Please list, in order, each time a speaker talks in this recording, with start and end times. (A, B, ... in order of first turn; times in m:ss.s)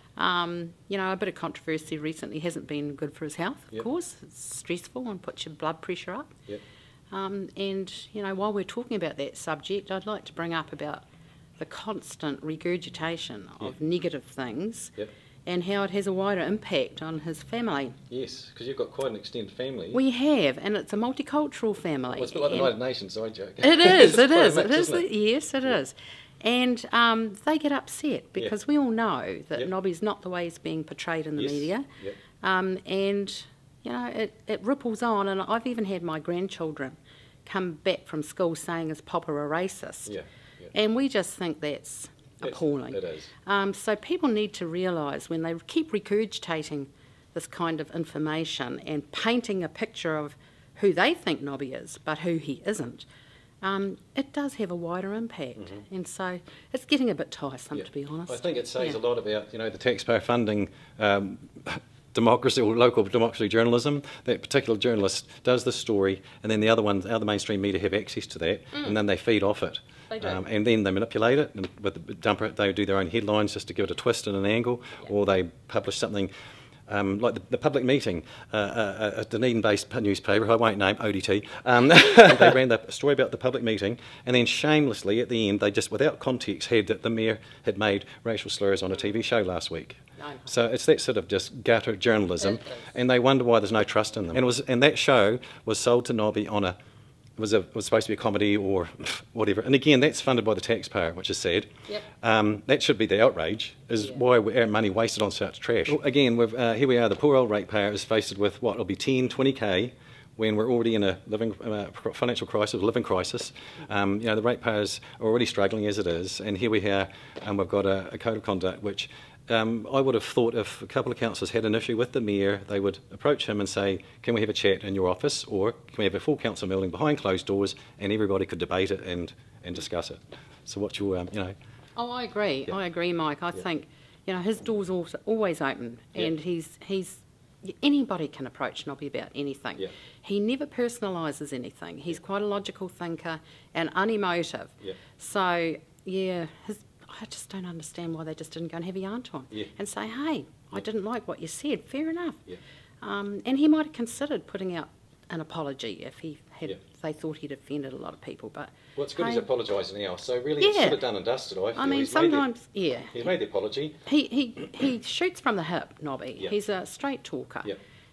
0:00.2-0:06.3 A
0:07.1-0:11.0 A
0:11.6-0:15.0 A
0:15.5-0:18.0 A
0:18.1-0:20.0 B
0:19.9-0:22.7 A
0:22.1-0:25.0 B
0:23.6-0:31.9 A
0:31.4-0:32.2 B
0:32.4-0:40.1 A
0:40.1-0:40.7 B
0:40.7-0:53.1 A
0:42.4-0:43.3 B
0:53.6-0:59.0 A
0:57.7-1:16.3 B
1:10.1-1:10.4 A
1:16.9-1:36.8 B
1:30.2-1:30.5 A
1:32.4-1:32.9 A
1:37.4-2:11.6 B
2:12.0-2:32.4 A
2:33.0-2:39.5 A
2:39.0-2:42.5 B
2:40.6-2:41.0 A
2:41.8-2:43.2 A
2:43.1-2:44.0 B
2:44.1-2:47.7 A